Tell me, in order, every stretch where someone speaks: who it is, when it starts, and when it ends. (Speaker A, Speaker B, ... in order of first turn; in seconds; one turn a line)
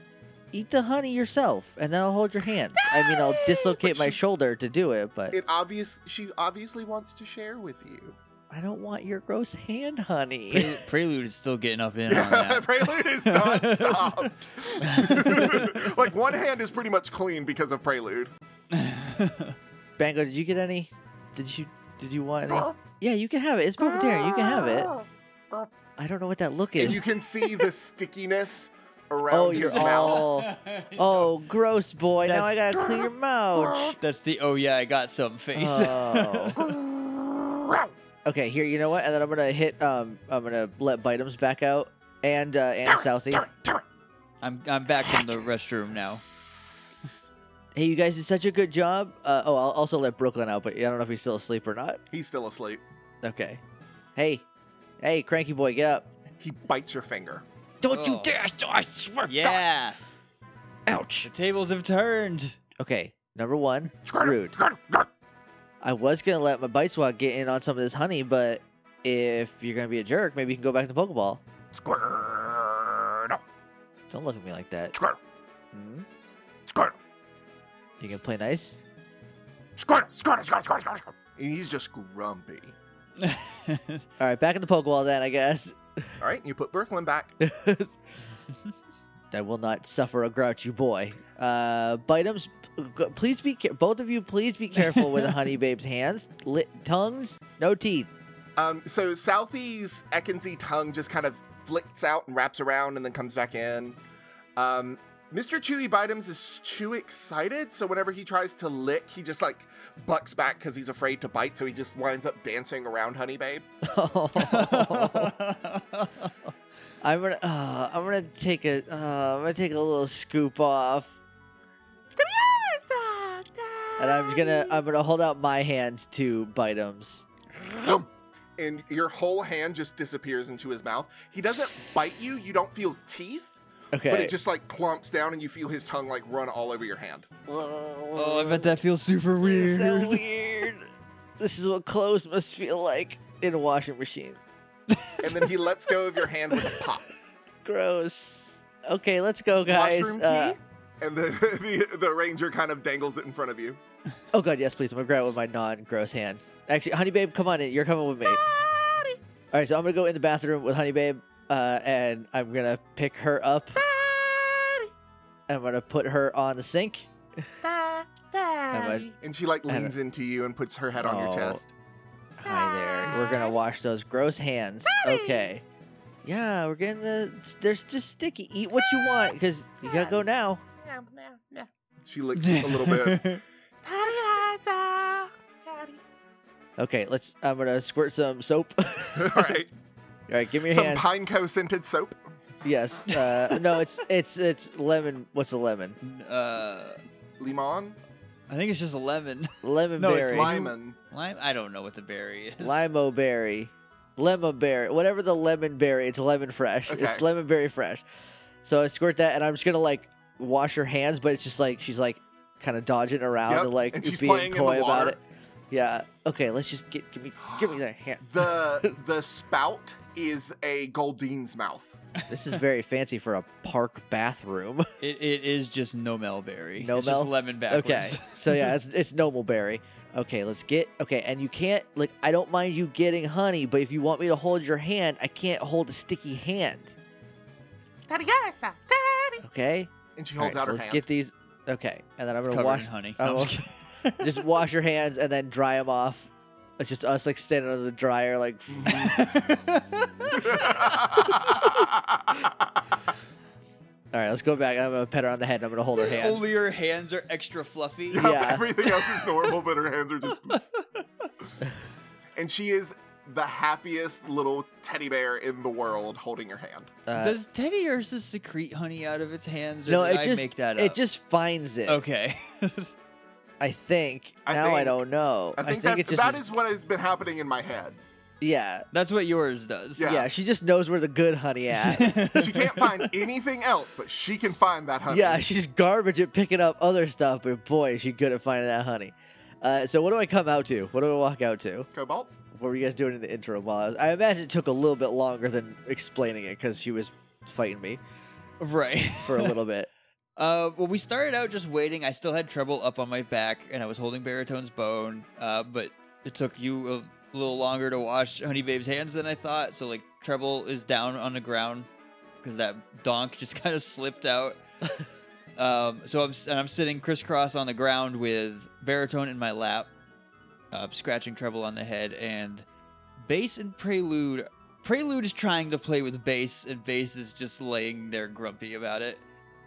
Speaker A: 0.5-5.4
Speaker B: 2.8-4.2
Speaker B: 5.3-8.2
Speaker A: 8.5-10.8
Speaker C: 10.5-14.3
Speaker B: 12.1-18.3
Speaker C: 14.8-15.8
Speaker C: 18.7-19.6
Speaker A: 20.0-24.9
Speaker B: 22.5-22.7
Speaker B: 23.8-25.7
Speaker A: 26.0-27.0
Speaker B: 26.8-30.2
Speaker A: 29.3-34.0
Speaker C: 29.5-31.3
Speaker C: 32.2-33.1
Speaker C: 34.0-36.7
Speaker A: 35.5-36.6
Speaker A: 38.2-43.5
Speaker B: 43.5-43.8
Speaker C: 44.4-46.2
Speaker B: 46.0-47.2
Speaker A: 47.7-52.0
Speaker B: 52.1-52.8
Speaker A: 53.2-53.6
Speaker A: 54.1-54.4
Speaker A: 55.0-56.1
Speaker B: 56.4-57.4
Speaker A: 57.8-59.6
Speaker C: 57.9-58.4
Speaker C: 59.3-60.0
Speaker A: 60.9-61.3
Speaker C: 61.2-62.6
Speaker A: 62.8-64.6
Speaker B: 64.1-65.0
Speaker A: 65.8-71.4
Speaker B: 71.8-73.4
Speaker A: 74.1-75.0
Speaker A: 75.7-76.0
Speaker A: 78.0-78.8
Speaker B: 79.8-82.8
Speaker C: 83.2-84.0
Speaker A: 84.2-86.2
Speaker B: 86.2-87.3
Speaker A: 87.4-88.0
Speaker A: 89.3-98.1
Speaker C: 94.8-95.4
Speaker B: 98.6-104.0
Speaker B: 104.5-113.7
Speaker A: 113.8-115.3
Speaker C: 114.4-116.3
Speaker A: 117.0-121.2
Speaker B: 122.2-124.8
Speaker A: 124.0-127.2
Speaker B: 127.5-133.6
Speaker A: 133.9-134.3
Speaker B: 134.1-137.3
Speaker A: 137.5-138.8
Speaker C: 138.2-140.7
Speaker A: 139.4-140.9
Speaker A: 141.4-144.4
Speaker C: 144.9-145.3
Speaker B: 145.2-147.1
Speaker A: 147.6-150.6
Speaker B: 149.7-153.8
Speaker A: 154.3-158.4
Speaker B: 158.2-159.2
Speaker A: 159.5-163.8
Speaker B: 163.8-164.8
Speaker A: 165.5-167.1
Speaker B: 167.6-171.7
Speaker A: 168.7-169.1
Speaker A: 169.7-169.9
Speaker A: 170.9-171.6
Speaker A: 172.4-175.6
Speaker B: 172.4-173.6
Speaker B: 174.8-175.5
Speaker A: 176.2-180.6
Speaker B: 179.0-179.3
Speaker B: 179.8-180.2
Speaker B: 180.8-183.3
Speaker C: 182.3-183.4
Speaker B: 183.8-186.0
Speaker A: 186.8-189.5
Speaker B: 189.2-189.7
Speaker A: 190.3-191.1
Speaker B: 190.7-192.1
Speaker A: 192.6-196.0
Speaker C: 193.1-193.8
Speaker C: 196.0-197.0
Speaker B: 197.4-198.0
Speaker C: 198.5-202.9
Speaker A: 199.6-200.5
Speaker B: 200.3-200.9
Speaker A: 202.6-208.0
Speaker B: 206.9-207.2
Speaker A: 208.6-215.2
Speaker B: 213.5-215.2
Speaker A: 215.7-218.9
Speaker B: 218.2-221.9
Speaker A: 222.3-224.9
Speaker C: 225.0-228.7
Speaker A: 226.8-236.9
Speaker B: 238.1-239.4
Speaker A: 239.4-243.7
Speaker B: 240.2-241.1
Speaker C: 242.5-244.6
Speaker A: 244.2-249.2
Speaker C: 248.9-250.8
Speaker B: 250.3-252.5
Speaker A: 254.1-256.4
Speaker C: 255.9-258.3
Speaker B: 258.1-260.6
Speaker A: 258.1-258.7
Speaker C: 260.5-260.8
Speaker B: 262.4-266.9
Speaker A: 267.1-267.4
Speaker C: 267.1-271.0
Speaker A: 269.9-272.0
Speaker C: 271.9-272.9
Speaker A: 273.6-276.4
Speaker B: 274.4-275.0
Speaker B: 275.6-278.0
Speaker A: 278.4-278.9
Speaker C: 278.9-280.2
Speaker B: 280.0-280.3
Speaker A: 280.0-282.3
Speaker C: 281.7-283.1
Speaker B: 282.3-285.5
Speaker A: 285.1-291.9
Speaker B: 291.9-292.3
Speaker A: 292.5-298.0
Speaker C: 298.6-299.6
Speaker A: 299.2-299.9
Speaker C: 300.4-311.9
Speaker C: 312.4-314.6
Speaker C: 315.6-319.9
Speaker C: 320.7-322.6
Speaker C: 323.2-329.2